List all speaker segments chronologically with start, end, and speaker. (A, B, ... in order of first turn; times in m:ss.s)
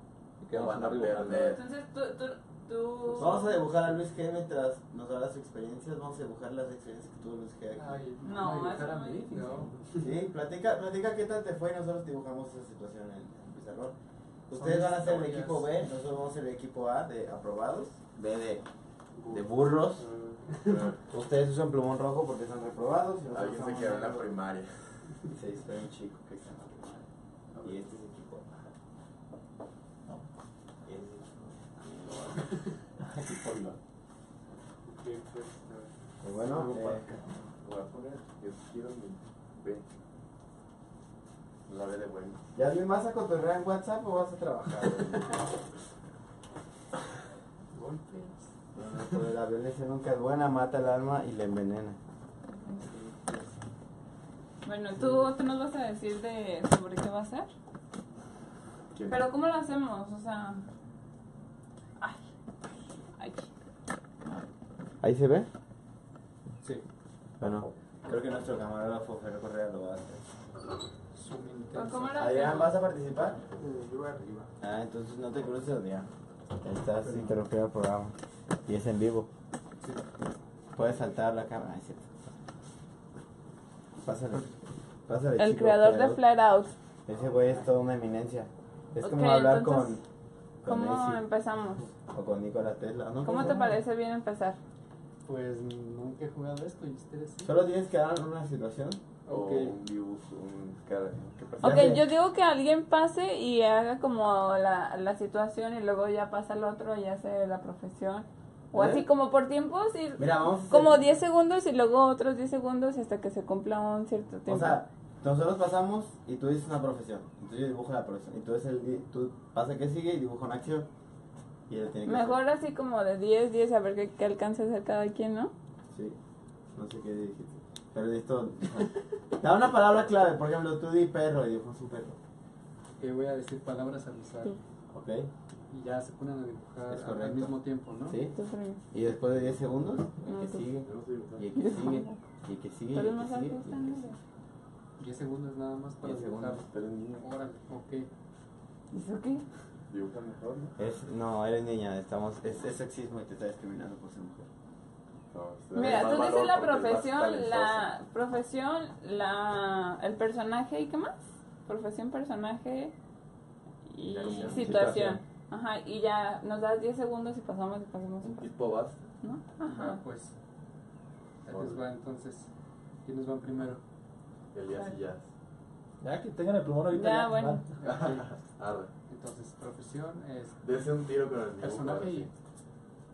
0:00.4-0:01.5 A
0:00.5-0:01.6 B
0:01.2-0:03.6 C
0:03.2-0:08.0 D
0:07.8-0:10.1 E
0:08.2-0:09.7 C
0:10.0-0:13.9 D
0:14.5-0:18.6 D
0:14.5-0:15.7 E
0:19.2-0:20.9 E
0:19.3-0:20.0 D
0:20.6-0:21.0 B
0:21.1-0:24.3 D
0:23.3-0:25.1 B
0:25.3-0:27.0 D
0:27.5-0:27.8 E
0:27.6-0:28.6 D
0:30.8-0:32.4 D
0:32.3-0:32.7 E
0:33.4-0:33.8 B
0:34.8-0:37.2 E
0:36.2-0:37.1 D
0:37.6-0:39.9 B
0:41.7-0:42.4 B
0:42.5-0:45.4 D
0:47.7-0:48.4 E
0:48.8-0:52.0 D
0:52.8-0:53.4 E
0:54.6-0:57.5 C
0:59.1-1:00.6 C
1:03.2-1:03.5 C
1:05.0-1:05.5 D
1:07.4-1:10.2 D
1:11.1-1:12.4 E
1:11.7-1:12.8 C
1:12.2-1:13.4 D
1:13.6-1:14.5 E
1:14.6-1:16.1 D
1:16.6-1:19.3 D
1:17.0-1:17.3 E
1:20.8-1:22.1 D
1:24.0-1:24.5 D
1:25.1-1:26.2 D
1:25.4-1:26.7 C
1:27.0-1:30.0 D
1:29.0-1:30.0 C
1:30.6-1:31.2 D
1:30.6-1:31.9 C
1:32.1-1:33.7 D
1:33.2-1:34.6 C
1:35.2-1:37.6 E
1:37.4-1:39.0 D
1:39.2-1:39.8 E
1:39.3-1:41.9 B
1:41.6-1:42.0 D
1:41.6-1:54.8 C
1:48.7-1:49.0 D
1:50.2-1:51.0 D
1:54.4-2:00.9 D
2:01.7-2:02.4 D
2:02.0-2:05.5 C
2:05.9-2:06.2 D
2:06.7-2:12.2 D
2:13.0-2:14.6 E
2:14.9-2:15.3 D
2:15.7-2:18.2 E
2:16.9-2:17.5 D
2:18.0-2:18.3 D
2:18.3-2:18.8 C
2:18.9-2:24.0 D
2:20.2-2:20.7 C
2:20.8-2:21.4 B
2:21.5-2:22.2 C
2:22.9-2:24.2 C
2:25.0-2:26.6 E
2:26.0-2:26.6 D
2:26.6-2:27.2 B
2:27.2-2:28.1 E
2:28.9-2:29.4 C
2:29.9-2:30.7 B
2:30.8-2:34.5 D
2:35.3-2:37.9 B
2:35.7-2:42.9 C
2:43.9-2:48.4 C
2:44.1-2:45.0 B
2:44.5-2:45.2 A
2:48.2-2:49.0 B
2:49.2-2:50.0 C
2:49.6-2:50.3 E
2:51.4-2:52.5 E
2:51.5-2:51.8 B
2:53.0-2:53.8 E
2:54.5-2:55.2 B
2:56.0-2:57.7 A
2:56.9-2:57.6 C
2:57.8-2:58.3 E
2:57.8-2:58.9 B
2:59.1-3:00.6 E
3:00.6-3:02.3 B
3:01.6-3:02.3 E